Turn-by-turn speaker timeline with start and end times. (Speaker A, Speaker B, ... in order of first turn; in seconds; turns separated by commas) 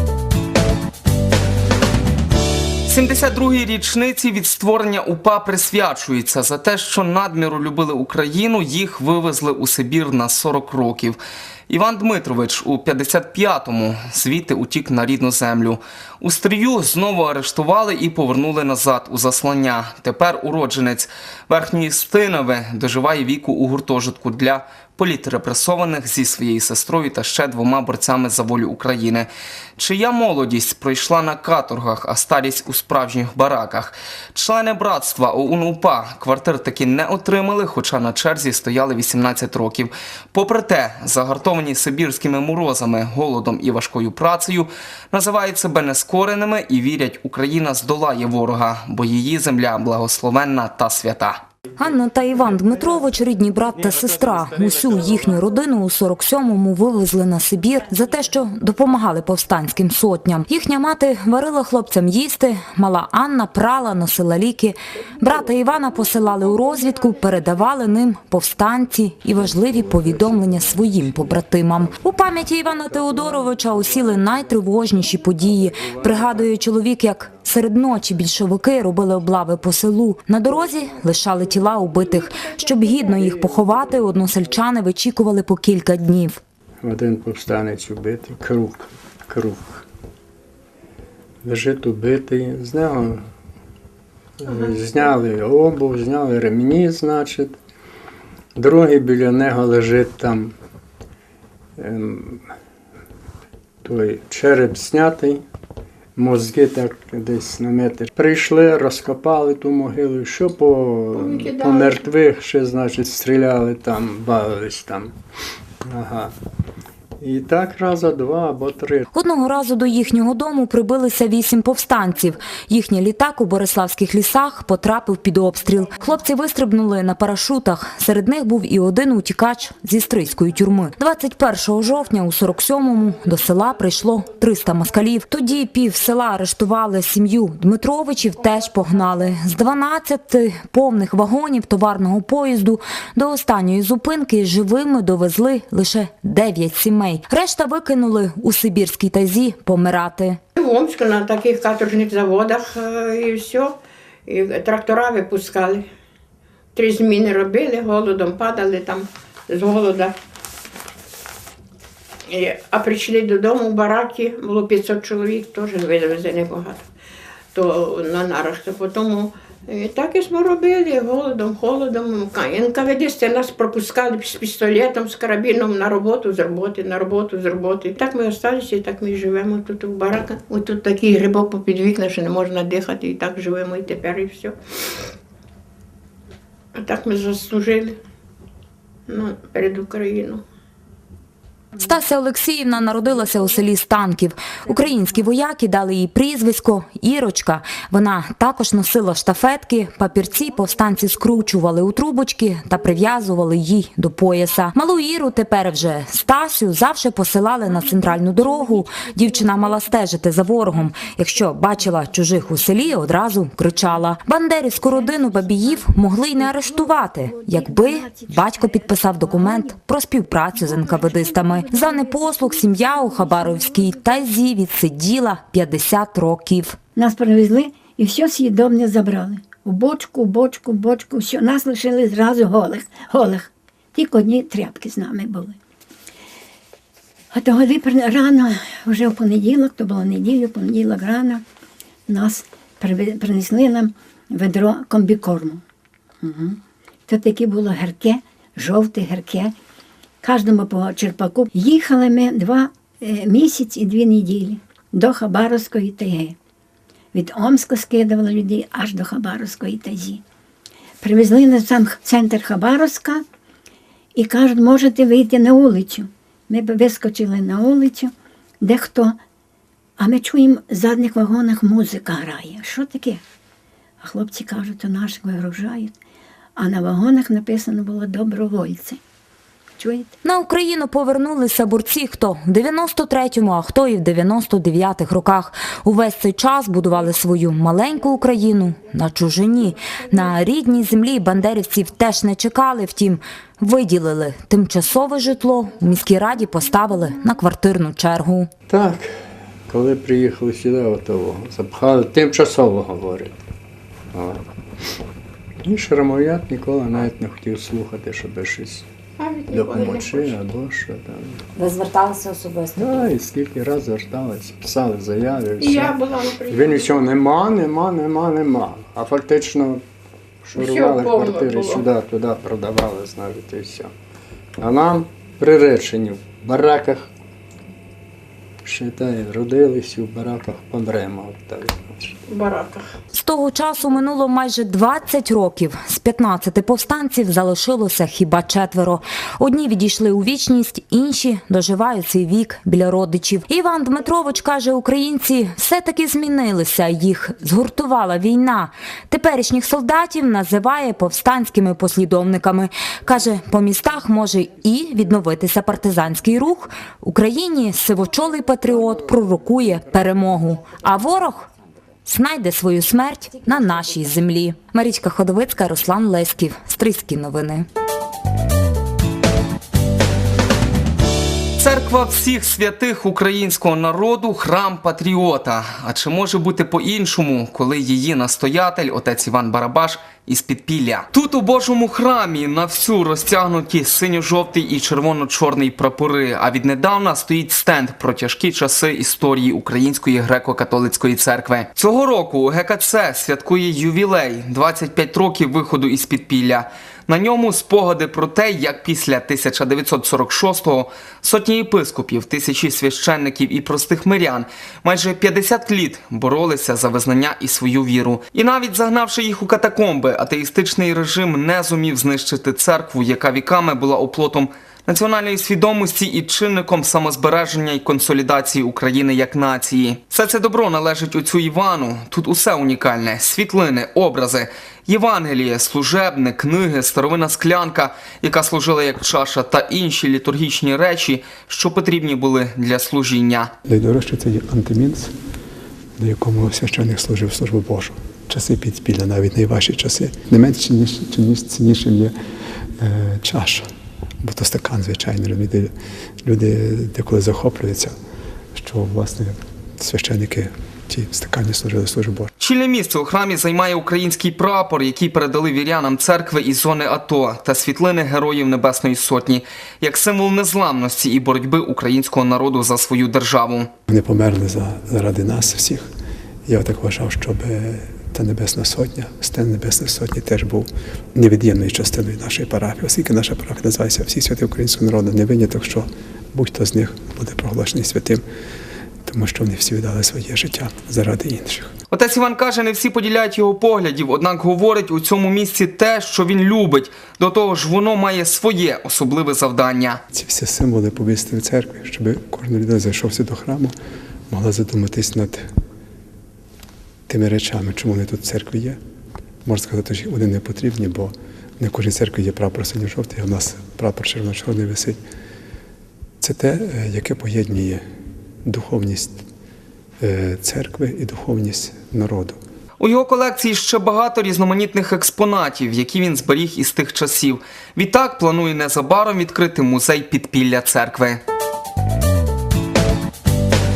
Speaker A: 2.9-11.2, Speaker A: 11.7-51.4, Speaker B: 51.8-86.4, Speaker C: 69.3-71.9, Speaker C: 72.8-74.5, Speaker C: 75.5-76.5, Speaker C: 82.8-83.7, Speaker C: 86.8-89.8, Speaker C: 91.4-93.2, Speaker C: 94.4-97.6, Speaker C: 98.6-100.5, Speaker C: 101.8-102.5, Speaker C: 103.8-105.4, Speaker C: 106.2-115.1, Speaker D: 111.2-111.9, Speaker C: 115.9-116.3, Speaker C: 117.2-119.1, Speaker B: 119.1-150.4, Speaker D: 150.6-153.7, Speaker D: 154.3-155.8, Speaker D: 156.8-160.1, Speaker D: 162.3-166.8, Speaker D: 167.6-184.6, Speaker D: 186.8-188.0, Speaker D: 189.1-190.4, Speaker B: 191.8-226.8, Speaker E: 216.4-219.8, Speaker E: 220.5-224.2, Speaker E: 227.0-235.6, Speaker E: 237.3-241.4, Speaker E: 242.1-245.6, Speaker E: 246.2-249.5, Speaker E: 250.2-256.4, Speaker E: 257.1-260.2, Speaker E: 261.0-263.2, Speaker E: 264.1-269.2, Speaker E: 270.0-273.2, Speaker E: 274.0-275.9, Speaker E: 276.6-279.0, Speaker E: 279.8-280.1, Speaker B: 280.2-298.5, Speaker C: 298.7-299.1, Speaker C: 299.7-303.4, Speaker C: 304.1-304.4, Speaker C: 305.6-308.9, Speaker D: 309.2-310.3, Speaker C: 309.5-311.4, Speaker B: 311.6-312.9, Speaker C: 312.8-319.8, Speaker D: 315.6-316.9, Speaker C: 320.4-323.9, Speaker D: 320.6-321.7, Speaker C: 324.6-327.1, Speaker C: 328.6-332.2, Speaker D: 332.3-332.9, Speaker B: 333.1-361.5, Speaker B: 362.1-367.7, Speaker A: 371.6-433.5, Speaker F: 433.6-435.1, Speaker F: 436.0-442.1, Speaker F: 442.8-443.6, Speaker F: 444.2-445.7, Speaker F: 446.2-447.9, Speaker F: 448.6-452.3, Speaker A: 452.4-463.7, Speaker F: 463.9-465.9, Speaker F: 466.5-478.2, Speaker F: 479.1-481.7, Speaker A: 481.9-490.0, Speaker F: 490.1-493.8, Speaker F: 494.3-495.5, Speaker F: 497.1-498.8, Speaker F: 499.4-505.0, Speaker F: 506.2-507.8, Speaker F: 508.4-509.2, Speaker F: 510.0-512.4, Speaker A: 512.8-521.2